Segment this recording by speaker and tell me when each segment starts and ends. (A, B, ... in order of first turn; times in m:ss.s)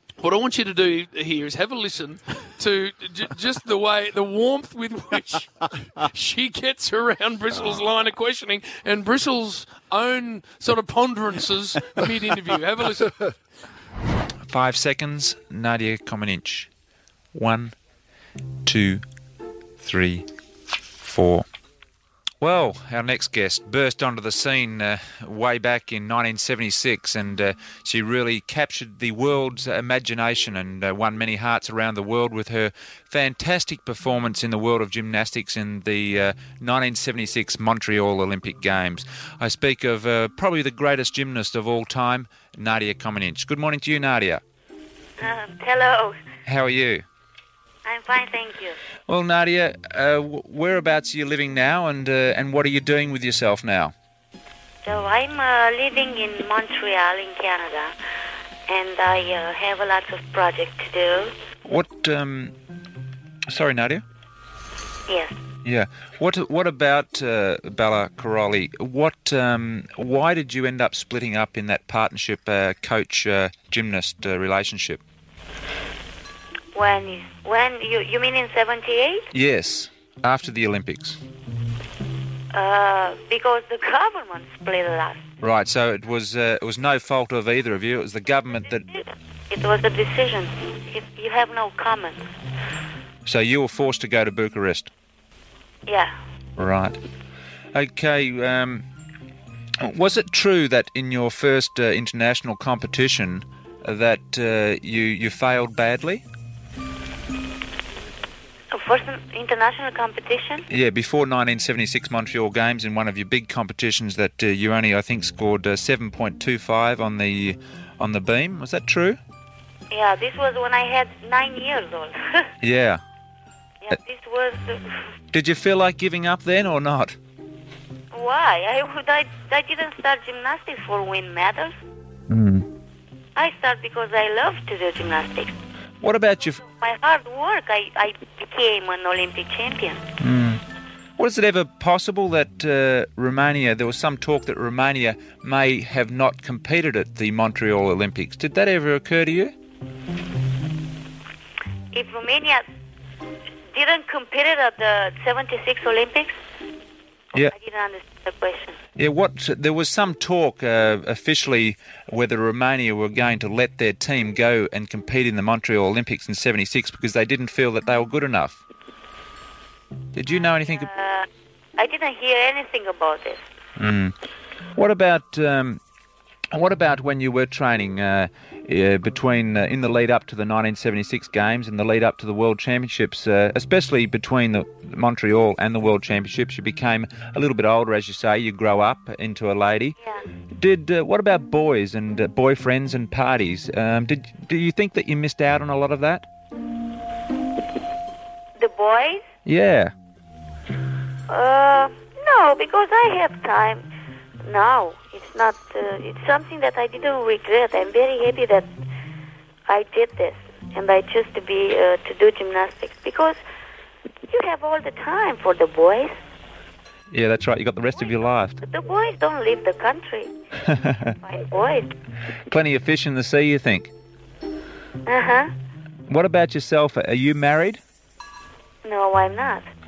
0:00.2-0:13.3 A
0:14.5-0:16.7 B
0:17.3-0:17.7 B
0:18.6-0:19.0 B
0:19.8-0:20.3 B
0:21.0-0:21.4 B
0:22.4-0:44.4 B
0:45.2-0:46.2 C
0:46.4-0:47.0 B
0:47.8-0:48.8 C
0:49.1-0:53.9 B
0:54.8-0:57.9 C
0:58.7-1:01.3 C
1:01.6-1:02.5 B
1:03.5-1:04.0 B
1:05.1-1:05.3 C
1:05.6-1:15.0 B
1:16.7-1:19.3 C
1:19.3-1:21.2 B
1:22.5-1:25.2 C
1:25.4-1:28.8 B
1:28.8-1:32.2 C
1:33.2-1:34.9 B
1:35.8-1:36.1 C
1:36.6-1:37.0 B
1:37.7-1:38.8 B
1:39.8-1:46.2 B
1:48.7-1:50.6 C
1:50.7-1:59.2 B
1:59.9-2:02.5 C
2:02.6-2:03.0 B
2:03.8-2:05.0 C
2:05.3-2:07.2 B
2:08.1-2:11.7 C
2:12.3-2:12.7 B
2:13.4-2:15.5 C
2:16.0-2:16.6 B
2:16.6-2:20.0 C
2:20.2-2:20.6 B
2:21.2-2:29.5 B
2:31.9-2:32.6 C
2:33.7-2:36.3 C
2:37.4-2:38.8 C
2:39.0-2:48.6 B
2:50.1-2:50.9 B
2:50.6-2:51.3 C
2:51.8-2:53.4 C
2:53.8-2:54.1 B
2:54.8-2:55.8 B
2:56.5-3:10.0 B
3:10.6-3:16.2 B
3:18.6-3:19.2 C
3:19.4-3:19.9 B
3:21.3-3:23.8 C
3:24.4-3:28.7 C
3:29.7-3:33.4 C
3:34.3-3:36.1 C
3:37.1-3:38.6 B
3:38.6-3:40.3 C
3:40.8-3:41.1 B
3:41.1-3:41.9 C
3:42.5-3:43.9 B
3:45.0-3:45.5 C
3:46.1-3:47.8 B
3:48.8-3:49.6 C